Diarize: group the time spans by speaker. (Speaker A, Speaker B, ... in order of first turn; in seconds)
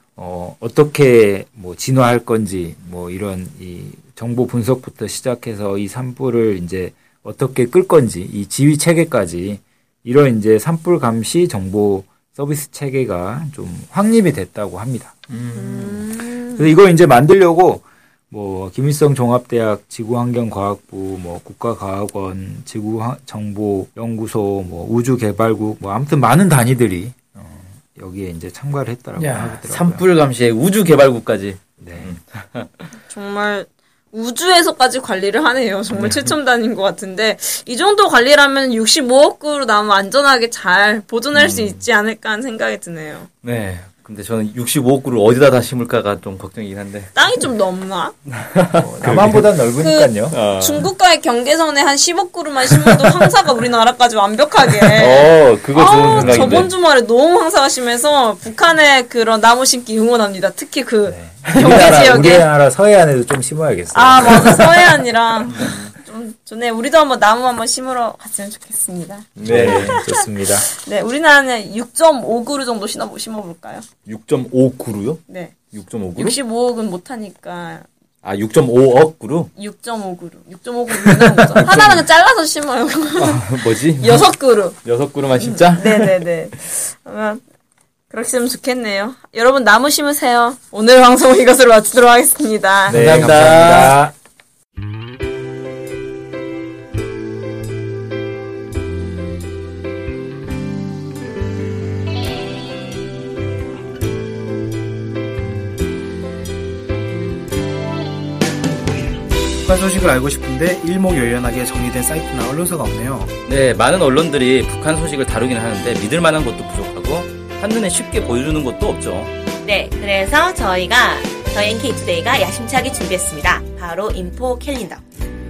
Speaker A: 0.2-30.1, 31.8-32.1, 48.8-50.4, 55.9-56.7, 61.0-65.1, 69.4-70.7, 92.9-94.1
Speaker B: 15.3-15.9, 29.1-32.9, 35.9-36.3, 41.3-41.8, 43.4-47.3, 48.3-49.5, 50.3-50.9, 52.7-53.1, 54.8-56.7, 65.5-65.9, 69.4-70.0, 74.0-76.4, 78.2-79.5, 80.9-82.0, 83.2-86.2, 92.9-94.0, 113.5-119.3
Speaker C: 15.6-16.6, 33.1-43.3, 47.1-48.1, 49.8-62.5, 63.9-73.8, 75.3-75.5, 76.2-77.8, 79.5-84.8, 85.4-87.4, 88.1-93.0
Speaker D: 109.6-113.3
Speaker E: 119.6-125.0